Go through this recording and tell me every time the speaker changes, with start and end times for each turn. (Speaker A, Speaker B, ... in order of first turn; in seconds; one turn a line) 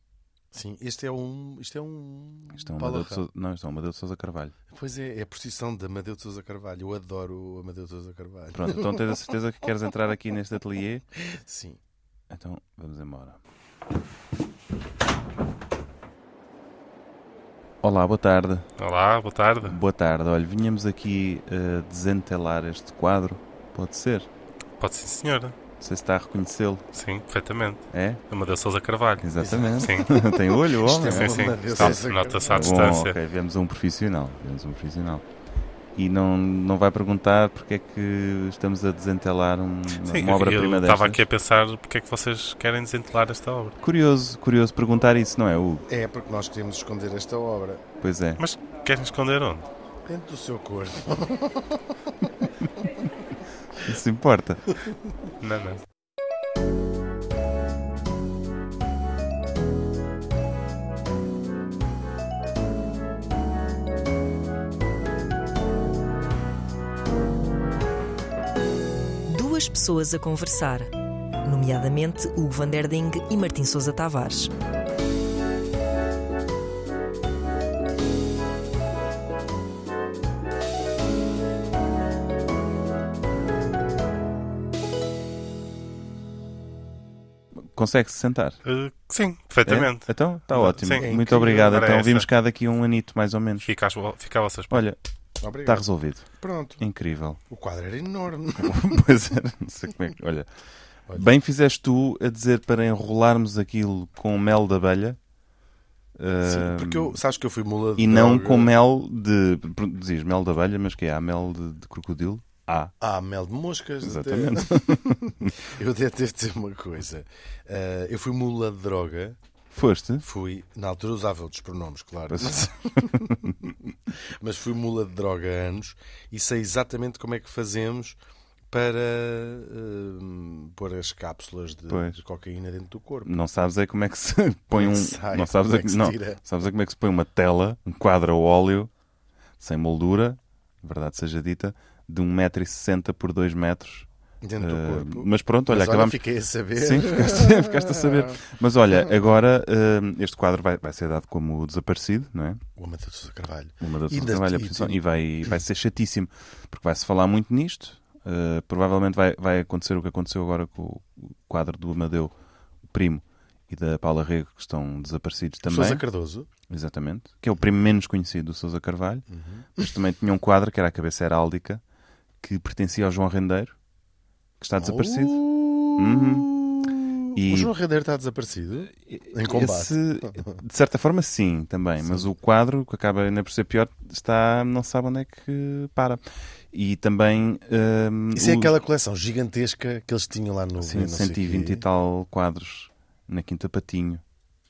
Speaker A: 0.5-3.2
Speaker B: 2.5-4.5
Speaker A: 4.7-9.2
Speaker B: 8.5-11.0
Speaker A: 11.2-11.8
Speaker B: 12.3-13.4
Speaker B: 17.8-18.7
Speaker C: 18.8-19.8
Speaker B: 19.7-24.3
Speaker C: 24.8-25.6
Speaker B: 25.8-26.8
Speaker C: 26.9-29.2
Speaker B: 27.9-28.2
Speaker B: 29.2-35.2
Speaker A: 29.4-33.0
Speaker C: 29.8-30.1
Speaker C: 31.1-33.2
Speaker B: 36.0-41.2
Speaker C: 40.0-43.8
Speaker B: 43.8-45.9
Speaker A: 45.9-47.8
Speaker B: 48.0-48.4
Speaker C: 48.4-49.6
Speaker A: 50.1-52.3
Speaker B: 53.8-54.8
Speaker C: 55.4-55.8
Speaker D: 69.3-70.9
Speaker D: 71.4-74.5
Speaker B: 87.8-88.6
Speaker C: 88.7-92.3
Speaker B: 89.7-93.7
Speaker A: 90.8-91.8
Speaker C: 93.6-94.8
Speaker B: 94.7-95.0
Speaker A: 95.4-96.8
Speaker B: 95.6-96.3
Speaker B: 96.8-97.4
Speaker A: 97.5-99.0
Speaker B: 98.6-100.5
Speaker B: 101.2-105.2
Speaker B: 106.2-107.2
Speaker A: 106.4-108.7
Speaker B: 108.0-112.9
Speaker A: 113.0-119.4
Speaker B: 114.0-115.5
Speaker B: 119.7-120.3
Speaker A: 120.2-123.5
Speaker B: 122.3-123.6
Speaker A: 124.4-128.2
Speaker A: 128.7-133.4
Speaker B: 131.9-132.2
Speaker B: 133.2-138.9
Speaker A: 134.7-136.4
Speaker B: 139.6-144.1
Speaker A: 144.4-148.4
Speaker B: 144.6-146.2
Speaker B: 146.8-152.6
Speaker A: 152.8-155.0
Speaker B: 153.8-162.3
Speaker B: 162.9-166.0
Speaker A: 165.7-166.5
Speaker B: 166.7-169.2
Speaker A: 169.3-169.9
Speaker B: 169.8-171.8
Speaker B: 172.4-173.7
Speaker B: 174.6-175.4
Speaker A: 174.8-180.6
Speaker B: 176.0-176.5
Speaker B: 177.3-177.7
Speaker B: 179.0-186.2
Speaker A: 182.0-182.3
Speaker B: 186.7-188.7
Speaker A: 188.3-191.8
Speaker B: 190.8-194.2